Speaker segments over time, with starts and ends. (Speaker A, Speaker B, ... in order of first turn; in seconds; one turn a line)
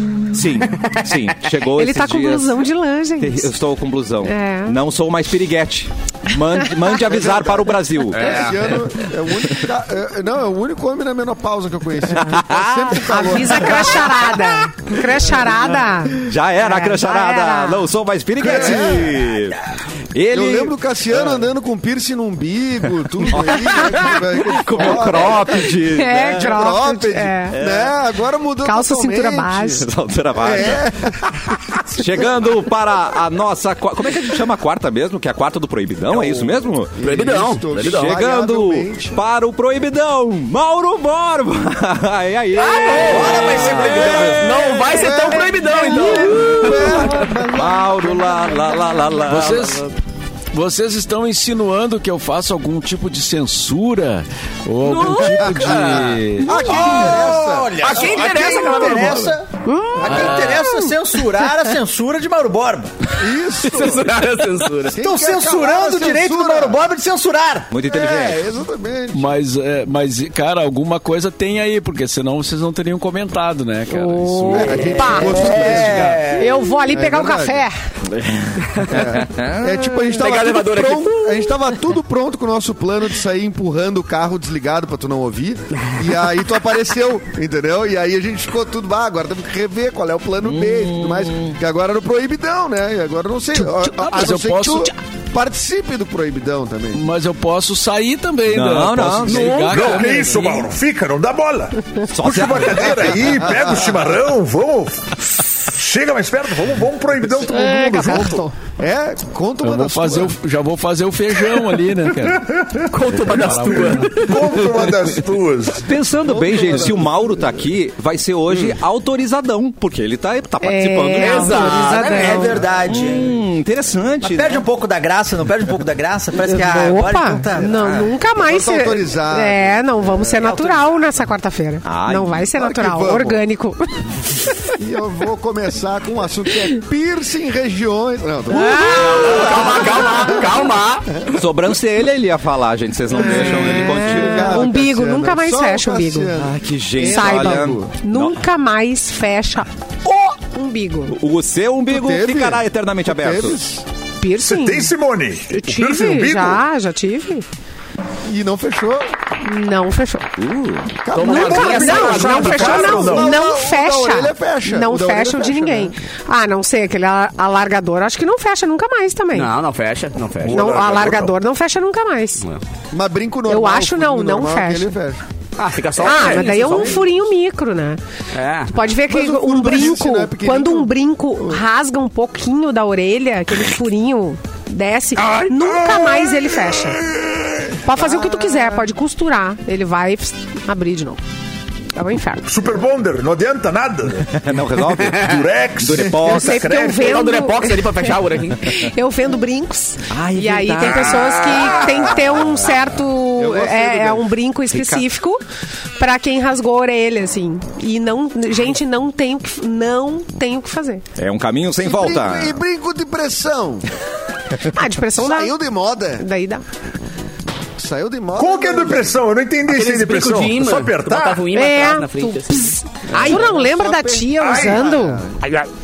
Speaker A: 0.3-2.6
Speaker B: 1.7-3.5
Speaker A: 3.2-8.6
Speaker B: 4.2-4.8
Speaker C: 7.1-14.3
Speaker A: 12.2-15.5
Speaker B: 13.0-17.9
Speaker A: 16.1-19.6
Speaker C: 18.4-19.3
Speaker A: 20.1-21.4
Speaker C: 20.3-25.7
Speaker A: 23.2-26.6
Speaker B: 25.9-27.6
Speaker C: 26.2-29.8
Speaker A: 27.6-27.9
Speaker B: 28.6-29.9
Speaker A: 29.8-30.9
Speaker C: 30.4-31.2
Speaker A: 31.8-36.9
Speaker C: 36.1-39.2
Speaker D: 37.0-38.2
Speaker A: 37.8-44.6
Speaker D: 42.6-47.3
Speaker E: 43.0-44.5
Speaker C: 43.4-47.8
Speaker A: 46.1-46.8
Speaker A: 47.5-49.8
Speaker F: 49.3-49.8
Speaker F: 50.5-56.7
Speaker D: 54.8-57.2
Speaker C: 55.3-55.7
Speaker C: 56.4-59.0
Speaker E: 56.6-62.9
Speaker D: 57.8-59.3
Speaker B: 59.6-60.9
Speaker F: 60.1-60.5
Speaker C: 63.2-64.1
Speaker D: 63.6-65.0
Speaker C: 64.9-66.8
Speaker E: 65.0-67.7
Speaker A: 67.7-68.5
Speaker C: 67.8-69.3
Speaker F: 69.1-75.0
Speaker B: 73.9-77.8
Speaker C: 74.5-76.3
Speaker E: 75.0-76.6
Speaker C: 76.9-77.7
Speaker C: 78.9-97.0
Speaker A: 78.9-79.8
Speaker D: 79.9-81.7
Speaker A: 90.4-91.6
Speaker F: 93.6-95.0
Speaker F: 96.9-100.7
Speaker A: 98.5-99.6
Speaker D: 99.3-100.1
Speaker G: 99.7-108.5
Speaker A: 102.1-103.4
Speaker C: 103.4-103.8
Speaker B: 107.5-108.3
Speaker C: 108.0-110.3
Speaker F: 109.6-114.6
Speaker G: 112.5-112.8
Speaker D: 112.9-114.2
Speaker G: 113.5-115.9
Speaker A: 115.8-124.7
Speaker C: 116.4-117.0
Speaker B: 120.6-122.6
Speaker D: 121.2-122.1
Speaker E: 121.8-123.3
Speaker E: 124.2-127.7
Speaker B: 126.4-134.7
Speaker A: 127.6-128.2
Speaker C: 128.4-129.8
Speaker E: 130.2-130.9
Speaker A: 131.8-132.5
Speaker C: 132.6-133.4
Speaker C: 134.8-140.7
Speaker B: 138.5-140.0
Speaker D: 138.7-141.4
Speaker A: 141.3-144.7
Speaker B: 143.1-146.3
Speaker C: 143.1-147.9
Speaker A: 146.3-148.4
Speaker B: 147.0-151.1
Speaker A: 151.1-153.6
Speaker C: 151.9-153.8
Speaker B: 154.2-154.9
Speaker G: 154.4-156.6
Speaker B: 155.5-157.5
Speaker C: 158.3-159.1
Speaker B: 159.4-160.3
Speaker A: 160.4-160.9
Speaker C: 161.0-165.9
Speaker D: 161.1-163.0
Speaker G: 161.3-163.4
Speaker B: 161.3-169.5
Speaker D: 169.3-170.6
Speaker G: 170.4-171.3
Speaker B: 170.5-172.4
Speaker C: 172.9-175.2
Speaker B: 173.5-174.9
Speaker D: 175.6-177.1
Speaker B: 176.0-178.0
Speaker C: 176.0-177.0
Speaker D: 178.3-178.7
Speaker B: 178.7-187.1
Speaker C: 179.1-181.6
Speaker B: 187.7-191.2
Speaker C: 188.0-188.8
Speaker B: 191.9-192.4
Speaker G: 192.5-194.4
Speaker A: 194.3-196.7
Speaker D: 195.0-195.3
Speaker G: 195.2-197.3
Speaker B: 196.2-205.4
Speaker D: 196.9-198.7
Speaker A: 200.1-201.6
Speaker C: 203.4-204.3
Speaker A: 204.7-205.1
Speaker B: 206.0-211.1
Speaker A: 211.2-212.6
Speaker C: 211.8-213.9
Speaker B: 214.7-215.5
Speaker C: 215.1-216.3
Speaker B: 216.2-216.6
Speaker C: 217.8-219.2
Speaker G: 218.4-221.5
Speaker D: 219.7-222.8
Speaker B: 221.5-225.2
Speaker C: 223.1-225.4
Speaker G: 224.4-224.8